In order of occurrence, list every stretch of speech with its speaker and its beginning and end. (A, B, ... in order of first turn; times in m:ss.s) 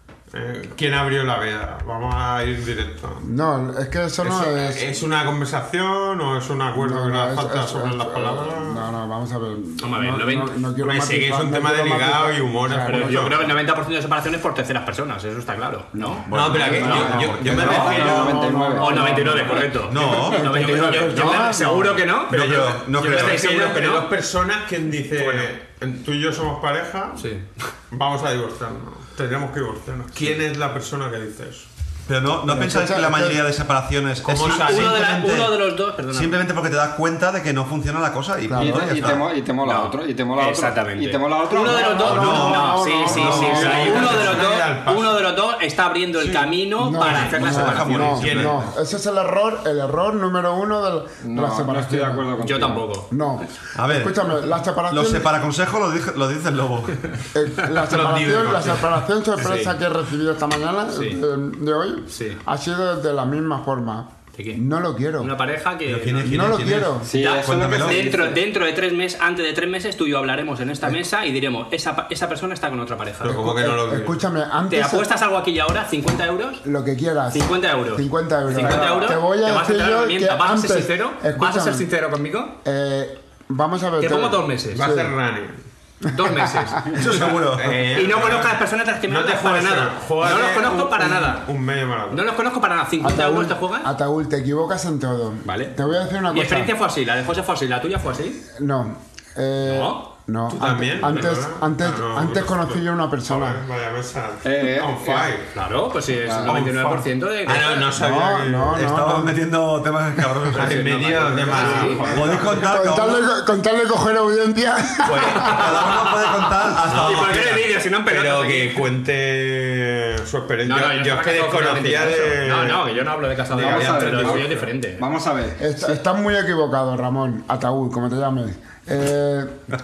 0:00.3-0:03.3 A
0:03.2-0:04.9 B
0:04.2-0:08.9 A
0:06.8-0:13.4 B
0:09.8-0:10.6 C
0:10.8-0:13.4 A
0:12.8-0:18.2 C
0:15.9-0:22.1 B
0:16.3-0:18.3 D
0:16.3-0:18.5 A
0:16.6-0:19.7 E
0:18.7-0:24.1 C
0:19.8-0:20.8 D
0:22.3-0:23.4 D
0:22.3-0:27.3 A
0:25.2-0:25.5 C
0:27.2-0:27.4 C
0:27.9-0:31.7 A
0:32.1-0:39.3 D
0:32.5-0:33.4 B
0:34.2-0:35.0 A
0:34.4-0:36.4 C
0:38.5-0:39.1 B
0:38.6-0:42.4 E
0:39.6-0:48.2 C
0:41.5-0:44.4 B
0:42.0-0:44.2 D
0:43.0-0:45.2 A
0:46.8-0:52.3 B
0:47.0-0:48.7 D
0:47.6-0:48.7 A
0:51.2-0:52.8 E
0:52.4-0:53.1 C
0:53.1-0:55.3 B
0:53.7-0:54.2 D
0:54.9-0:57.2 D
0:57.3-1:05.3 B
0:57.8-0:59.0 A
0:59.4-0:59.7 C
1:00.9-1:01.2 C
1:02.1-1:02.4 C
1:04.4-1:04.6 C
1:05.2-1:13.4 C
1:05.8-1:08.1 D
1:06.2-1:07.1 B
1:07.0-1:08.4 E
1:13.2-1:14.2 A
1:13.2-1:15.1 B
1:14.7-1:16.6 C
1:16.6-1:21.9 B
1:17.3-1:22.6 C
1:22.6-1:25.1 B
1:24.0-1:24.8 C
1:24.7-1:25.6 A
1:26.0-1:27.2 C
1:26.1-1:26.8 B
1:26.9-1:27.8 D
1:27.3-1:32.2 A
1:27.9-1:31.5 C
1:32.1-1:33.9 C
1:33.0-1:36.7 B
1:35.4-1:35.7 C
1:36.3-1:38.4 C
1:38.5-1:43.6 B
1:39.6-1:40.1 C
1:40.5-1:45.5 A
1:44.4-1:45.3 E
1:45.5-1:47.9 C
1:46.2-1:46.5 E
1:46.4-1:48.9 A
1:47.9-1:49.4 B
1:48.7-1:51.2 D
1:50.5-1:52.1 C
1:50.5-1:52.7 A
1:51.6-1:51.9 B
1:52.0-1:53.2 D
1:52.6-1:55.6 B
1:55.0-1:57.7 D
1:55.3-1:56.1 C
1:56.8-1:58.8 C
1:56.9-1:57.3 A
1:58.0-2:04.7 A
2:00.6-2:05.0 C
2:03.5-2:06.0 E
2:05.6-2:09.6 B